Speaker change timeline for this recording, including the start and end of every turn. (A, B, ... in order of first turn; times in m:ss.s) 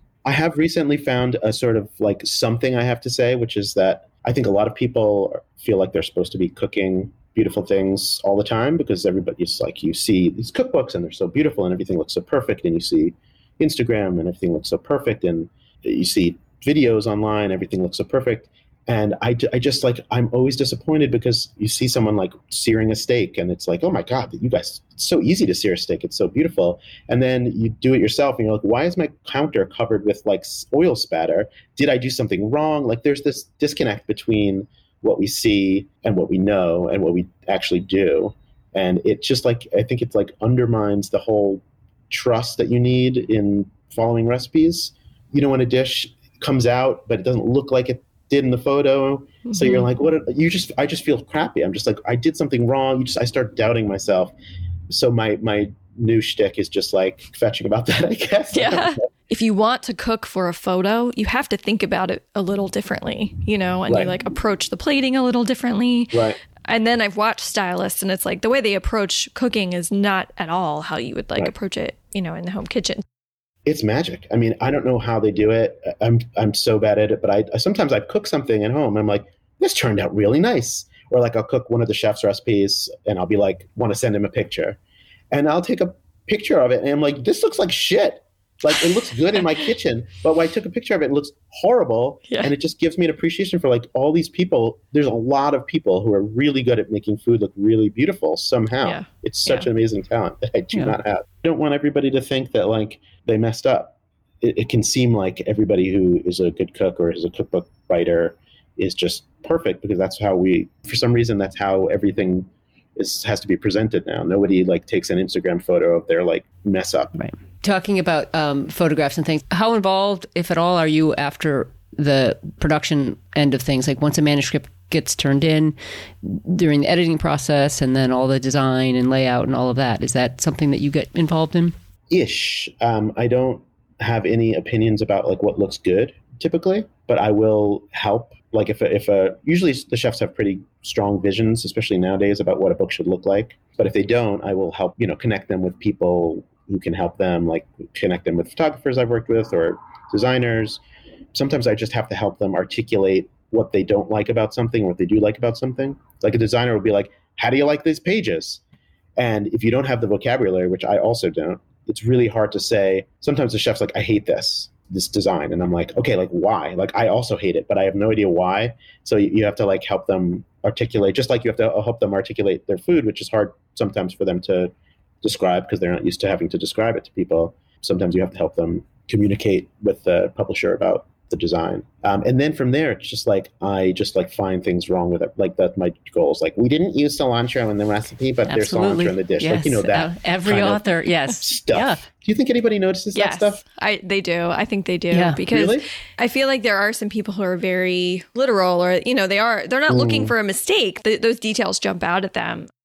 0:00.2-0:54.3 A
0:49.5-0:49.9 B
0:54.9-0:59.0 A
0:58.5-1:13.0 B
1:03.9-1:04.1 A
1:06.1-1:06.4 A
1:13.6-1:24.8 A
1:25.3-1:57.2 A
1:38.8-1:39.7 B
1:57.2-2:11.8 C
2:12.1-2:30.8 A
2:31.3-2:38.6 A
2:39.2-3:13.6 A
3:08.5-3:12.0 C
3:13.2-3:22.7 B
3:15.1-3:15.4 C
3:15.5-3:15.9 A
3:19.9-3:20.3 A